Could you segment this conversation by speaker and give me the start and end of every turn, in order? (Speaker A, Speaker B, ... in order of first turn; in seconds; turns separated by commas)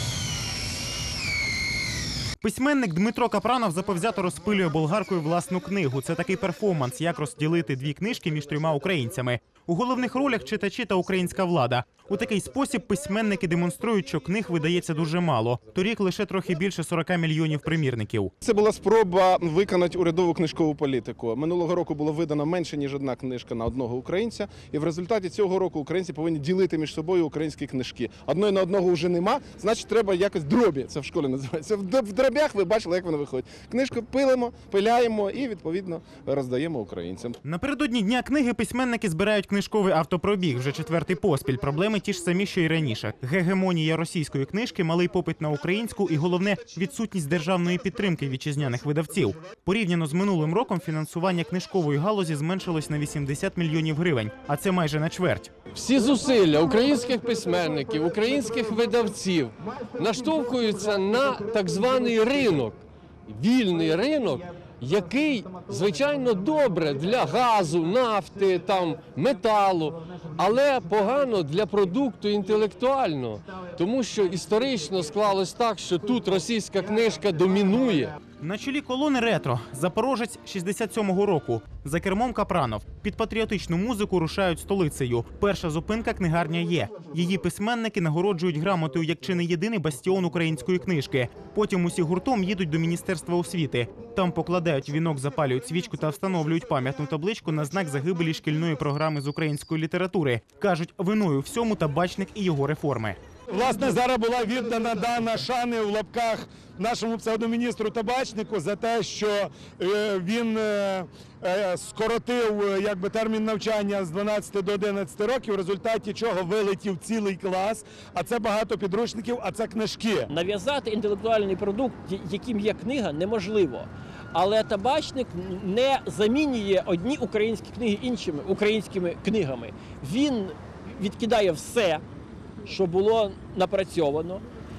Speaker A: 2.4-18.3, Speaker B: 18.4-37.4, Speaker A: 37.4-55.5, Speaker C: 55.8-62.8, Speaker C: 63.3-78.1, Speaker A: 78.4-103.2, Speaker D: 103.5-120.3, Speaker E: 120.3-132.0, Speaker E: 132.6-134.4